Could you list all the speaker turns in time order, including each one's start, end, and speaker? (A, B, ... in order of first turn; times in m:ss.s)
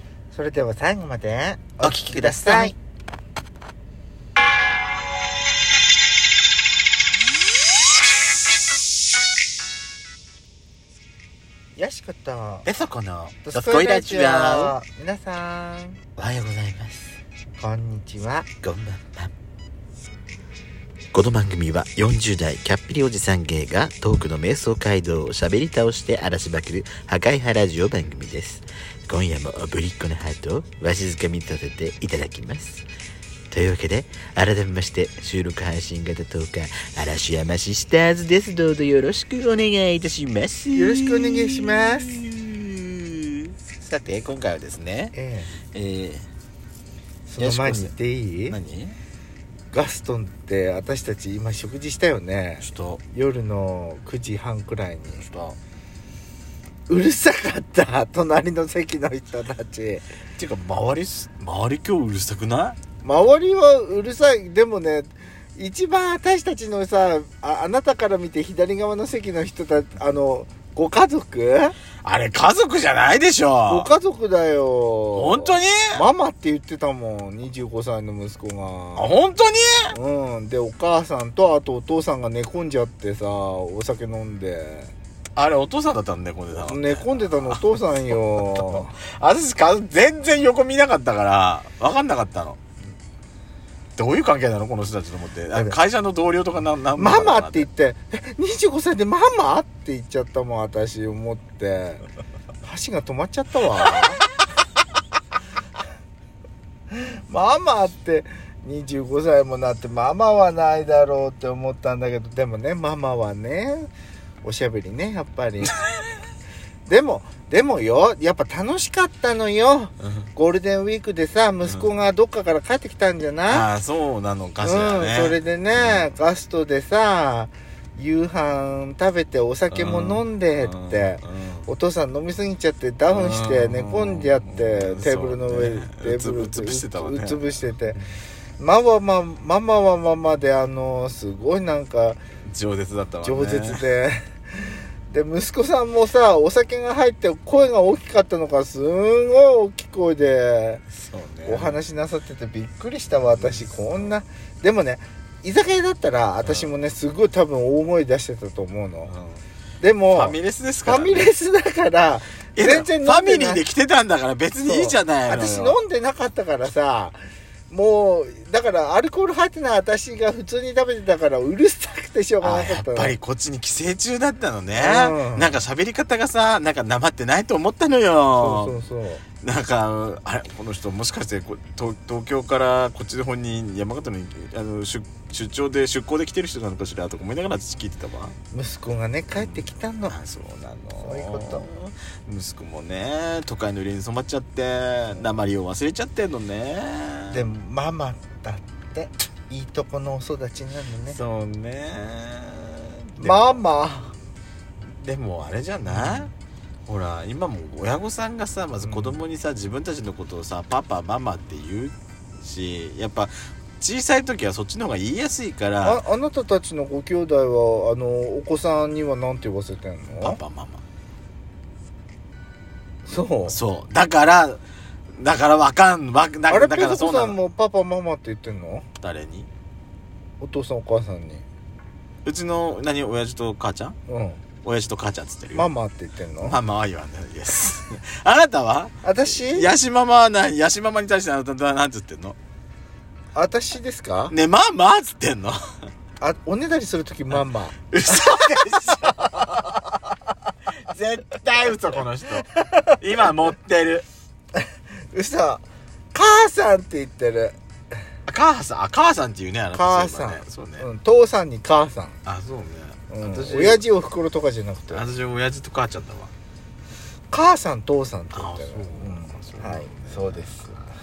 0:00.3-0:02.7 A
0:01.8-0:02.7 B
0:11.8-0:12.7 A
0:12.6-0:14.8 B
0:13.4-0:16.0 A
0:16.2-0:17.1 B
0:17.6-0:18.5 A
0:18.6-0:19.3 B
0:21.1-0:32.8 B
0:33.5-0:45.1 B
0:40.7-0:42.2 A
0:45.1-0:45.5 A
0:45.7-0:46.2 B
0:47.3-0:48.6 A
0:47.4-0:47.9 B
0:48.5-0:49.0 B
0:49.7-0:55.2 A
0:52.6-0:53.0 B
0:55.2-0:55.6 B
0:56.9-1:00.0 A
1:00.4-1:02.8 B
1:03.0-1:11.8 A
1:12.0-1:13.9 B
1:13.7-1:19.1 A
1:15.1-1:16.0 B
1:19.0-1:20.0 B
1:19.9-1:24.9 A
1:25.4-1:27.6 B
1:26.5-1:29.0 A
1:28.4-1:32.6 B
1:34.0-1:37.7 B
1:35.5-1:35.8 A
1:36.9-1:42.0 A
1:42.6-1:44.2 A
1:46.9-1:53.9 A
1:54.4-1:55.7 A
1:56.8-2:03.7 A
2:03.5-2:06.1 B
2:04.6-2:18.0 A
2:09.7-2:11.7 B
2:13.1-2:17.5 B
2:18.6-2:22.2 A
2:22.5-2:23.8 B
2:23.2-2:30.8 A
2:30.9-2:31.8 B
2:31.4-2:39.1 A
2:33.2-2:34.1 B
2:36.4-2:36.7 B
2:39.1-2:39.4 B
2:39.8-2:43.6 A
2:40.1-2:41.3 B
2:42.6-2:45.8 B
2:44.6-2:47.2 A
2:47.7-2:53.2 A
2:52.4-2:58.7 B
2:54.7-2:55.6 A
2:58.4-2:59.2 A
2:59.4-3:08.4 B
3:08.5-3:10.2 A
3:09.4-3:17.4 B
3:11.0-3:11.6 A
3:17.3-3:21.2 A
3:21.1-3:23.6 B
3:23.2-3:24.1 A
3:24.8-3:26.3 B
3:25.9-3:26.3 A
3:26.9-3:36.0 B
3:28.8-3:29.2 A
3:35.8-3:40.4 A
3:40.2-3:40.8 B
3:43.0-3:43.6 A
3:43.5-3:47.4 B
3:46.5-3:48.8 A
3:49.0-3:49.5 B
3:50.4-3:51.4 A
3:52.2-3:54.0 B
3:54.1-3:54.4 A
3:54.6-3:55.7 B
3:55.5-3:56.6 A
3:56.4-4:02.4 B
3:59.0-3:59.7 A
4:03.3-4:04.3 A
4:04.3-4:05.6 B
4:06.2-4:09.3 A
4:07.9-4:09.7 B
4:10.8-4:14.0 B
4:12.6-4:13.0 A
4:15.1-4:17.6 A
4:18.3-4:20.8 B
4:19.7-4:22.2 A
4:22.2-4:23.8 B
4:23.1-4:25.0 A
4:24.9-4:26.3 B
4:27.3-4:30.8 A
4:28.3-4:30.7 B